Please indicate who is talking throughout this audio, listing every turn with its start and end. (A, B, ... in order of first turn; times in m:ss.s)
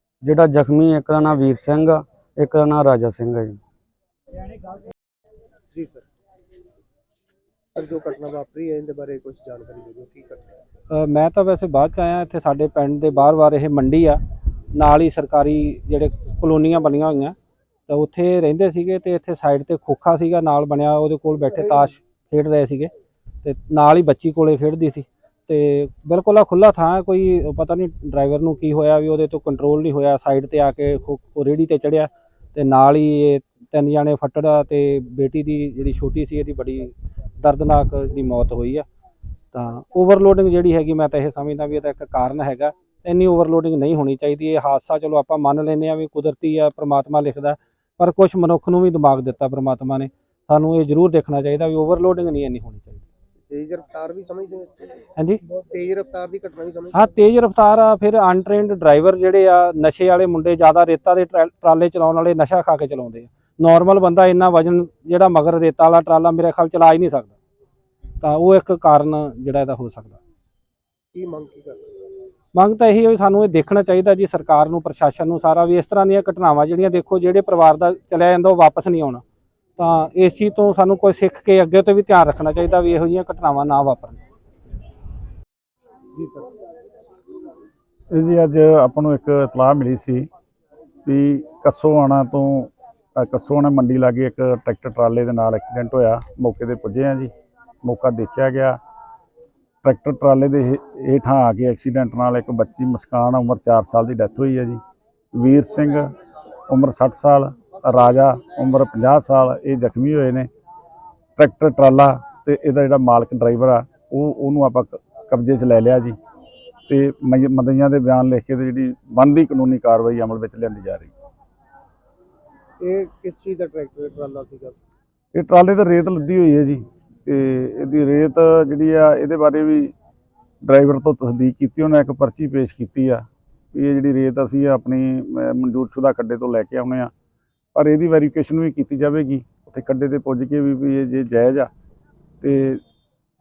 0:00.2-0:03.6 A
0:05.7-0:06.0 B
0:07.8-0:10.6 B
0:10.9-0:14.2 C
0:14.7-0:17.3 C
0:17.9-0:22.9 C
0:23.4-0:38.8 C
0:39.5-0:53.0 C
0:53.5-0:55.0 B
0:55.5-0:57.2 B
0:56.9-1:07.3 C
1:08.2-1:10.2 C
1:11.1-1:11.8 B
1:12.5-1:19.2 C
1:19.8-1:24.2 C
1:26.2-1:26.5 B
1:28.1-1:30.3 D
1:31.0-1:37.3 D
1:37.8-1:38.8 D
1:39.8-1:44.8 D
1:45.4-1:46.1 D
1:46.7-1:50.5 D
1:51.4-1:56.1 D
1:56.9-2:01.1 D
2:02.8-2:04.8 B
2:05.3-2:09.9 D
2:10.6-2:17.1 D
2:17.7-2:21.7 D
2:22.4-2:22.8 D